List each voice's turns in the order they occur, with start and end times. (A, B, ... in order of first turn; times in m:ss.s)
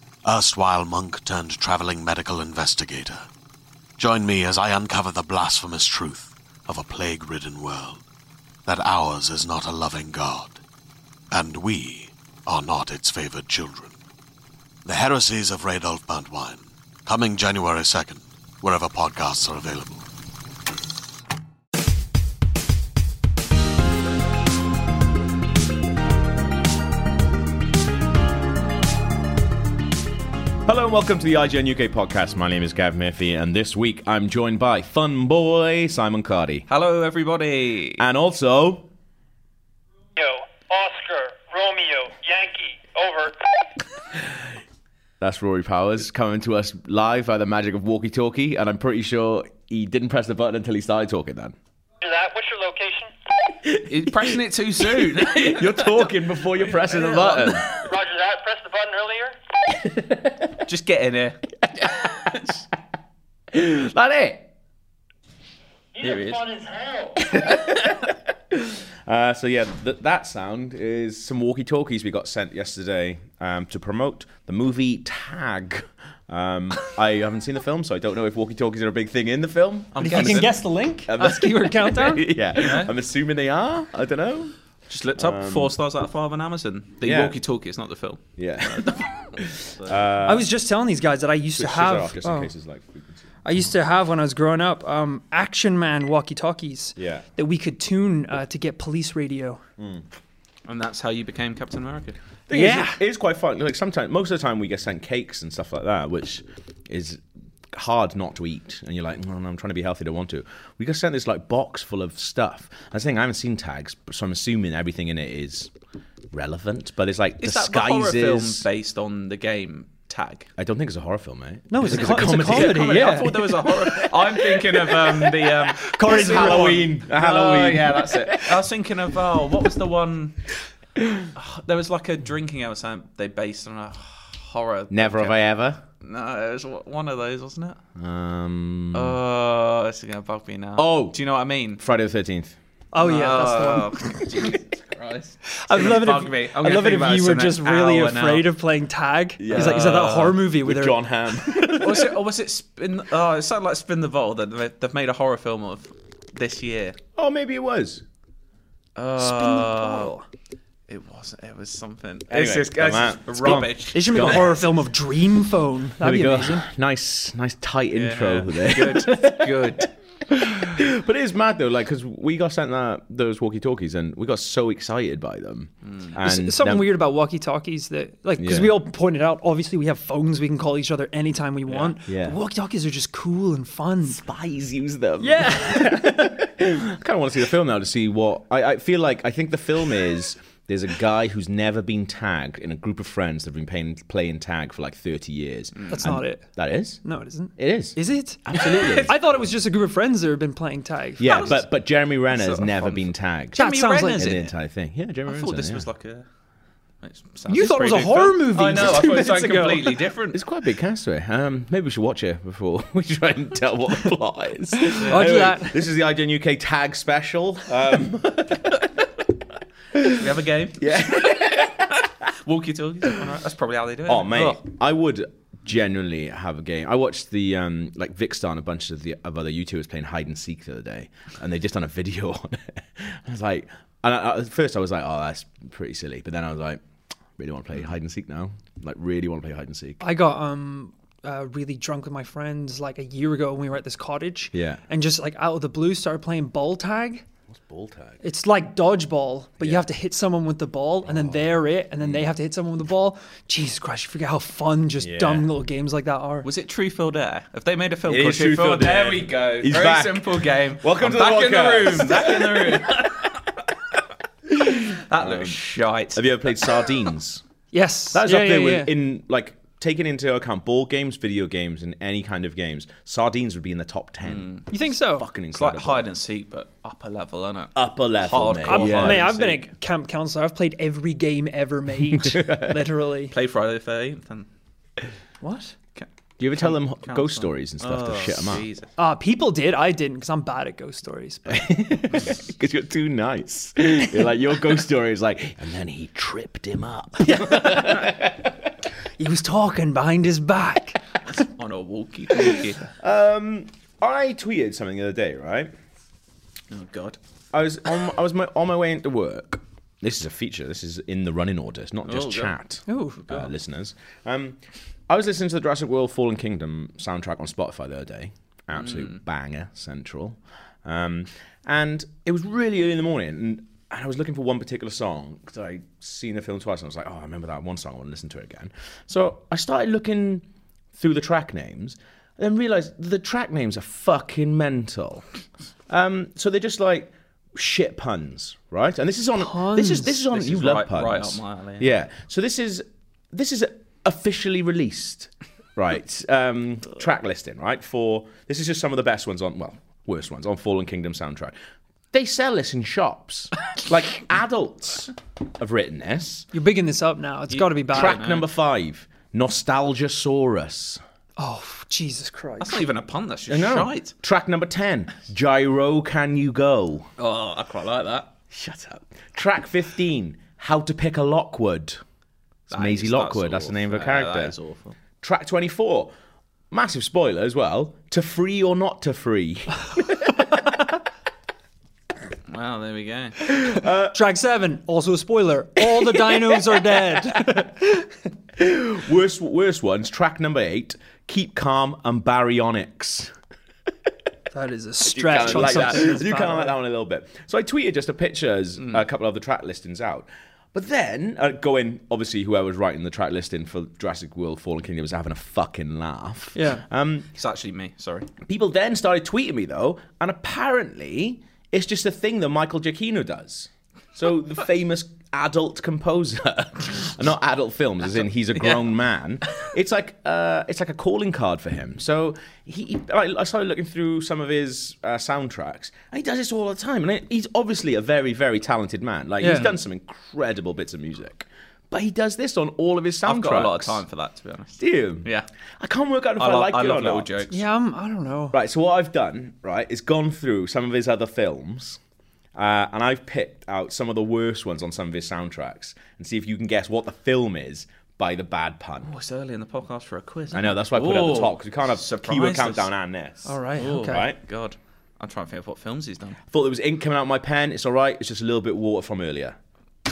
0:00.2-0:03.3 A
0:04.0-0:08.0 A
0:08.6-0:10.6 A
0:11.3-0:13.9 A
0:14.8-0:20.0 A
0:30.6-0:36.6 B
0:36.7-0:38.0 C
0:38.0-0:38.9 B
0:40.2-0:43.4 D
0:45.2-0:51.5 B
0:52.0-0:53.1 D
0:53.6-0:57.7 B
0:53.9-0:57.7 C
0:57.8-0:59.4 D
0:59.9-1:00.5 B
1:00.6-1:01.4 C
1:01.8-1:02.4 B
1:03.5-1:04.4 B
1:06.0-1:06.5 C
1:06.0-1:07.1 D
1:07.3-1:20.5 B
1:19.9-1:20.5 C
1:20.0-1:22.3 E
1:21.0-1:24.5 B
1:22.6-1:22.9 C
1:24.9-1:30.0 C
1:25.2-1:25.7 B
1:27.0-1:27.4 B
1:28.4-1:30.5 B
1:30.2-1:32.5 E
1:31.6-1:33.2 B
1:33.4-1:39.6 E
1:37.0-1:37.2 B
1:39.8-1:40.0 B
1:40.6-1:42.2 C
1:42.5-1:55.7 B
1:42.5-1:43.0 E
1:56.3-1:58.7 B
1:57.4-2:00.5 C
2:00.6-2:08.6 B
2:01.7-2:03.5 E
2:01.8-2:10.4 C
2:05.8-2:06.9 E
2:11.3-2:15.4 C
2:14.9-2:15.8 B
2:16.0-2:17.8 C
2:18.0-2:19.2 B
2:18.9-2:21.8 C
2:20.8-2:21.2 B
2:21.7-2:22.6 B
2:22.9-2:24.5 E
2:23.0-2:28.5 C
2:25.5-2:31.8 E
2:29.4-2:32.1 B
2:29.5-2:30.4 C
2:31.7-2:37.0 C
2:37.2-2:38.0 B
2:39.0-2:40.2 C
2:39.2-2:40.2 E
2:40.9-2:44.6 C
2:42.3-2:44.6 B
2:43.5-2:46.6 E
2:46.0-2:57.0 B
2:47.9-2:49.9 C
2:55.8-2:56.1 C
2:56.2-3:04.2 E
2:58.4-2:58.8 B
3:01.7-3:01.9 C
3:02.0-3:02.4 B
3:04.0-3:17.0 B
3:05.2-3:06.4 E
3:15.7-3:16.1 C
3:15.9-3:16.5 E
3:17.0-3:18.4 E
3:17.6-3:19.1 B
3:18.6-3:19.1 C
3:19.0-3:21.4 E
3:21.2-3:25.8 B
3:21.2-3:24.5 C
3:23.6-3:24.4 E
3:25.3-3:26.2 C
3:27.0-3:30.4 C
3:27.5-3:30.0 E
3:30.3-3:38.9 B
3:35.0-3:35.3 C
3:35.1-3:35.8 E
3:39.9-3:40.3 B
3:40.0-3:41.7 C
3:40.8-3:41.8 B
3:42.4-3:44.6 C
3:44.1-3:56.8 B
3:57.4-4:00.0 B
4:00.0-4:07.2 E
4:04.5-4:04.8 B
4:07.5-4:08.2 B
4:08.2-4:16.5 E
4:11.0-4:11.4 B
4:12.0-4:12.3 B
4:15.0-4:15.5 B
4:16.4-4:23.4 C
4:18.1-4:23.1 B
4:24.6-4:25.6 B
4:24.8-4:26.6 C
4:26.1-4:27.4 B
4:27.7-4:28.9 E
4:28.1-4:36.1 B
4:34.2-4:34.6 C
4:34.7-4:35.2 E
4:35.5-4:39.6 C
4:37.7-4:39.3 B
4:38.6-4:43.3 E
4:42.1-4:42.8 B
4:43.3-4:44.5 C
4:45.4-4:45.7 E
4:45.9-4:48.9 C
4:46.4-4:48.6 B
4:49.0-4:52.3 E
4:51.5-4:58.6 B
4:57.2-4:58.1 E
4:59.2-5:01.0 E
5:01.4-5:02.8 C
5:03.0-5:05.7 B
5:06.7-5:07.2 C
5:07.5-5:35.2 B
5:12.0-5:12.5 C
5:12.9-5:13.5 E
5:18.7-5:19.2 C
5:35.9-5:51.5 B
5:39.4-5:40.2 E
5:40.3-5:41.9 C
5:52.1-5:56.5 B
5:56.5-5:58.2 E
5:57.5-5:58.4 C
5:57.9-6:01.0 B
6:01.4-6:02.8 E
6:02.6-6:04.1 C
6:03.5-6:07.1 B
6:07.2-6:08.3 C
6:08.5-6:12.0 B
6:12.7-6:14.5 B
6:12.7-6:15.0 C
6:15.2-6:16.1 B
6:16.7-6:20.5 B
6:22.5-6:23.4 C
6:23.5-6:24.2 B
6:24.1-6:28.1 E
6:28.6-6:33.3 B
6:34.5-6:36.7 E
6:35.1-6:47.3 B
6:35.6-6:36.0 C
6:46.5-6:46.8 E
6:47.4-6:48.3 C
6:48.4-7:14.0 B
7:09.4-7:09.7 E
7:13.2-7:15.5 C
7:14.8-7:15.3 B
7:15.8-7:17.5 B
7:16.4-7:17.6 C
7:17.5-7:18.6 E
7:18.5-7:22.0 B
7:22.5-7:29.1 B
7:29.0-7:32.9 C
7:30.5-7:34.4 B
7:33.4-7:34.2 E
7:33.8-7:36.4 C
7:36.5-7:39.6 B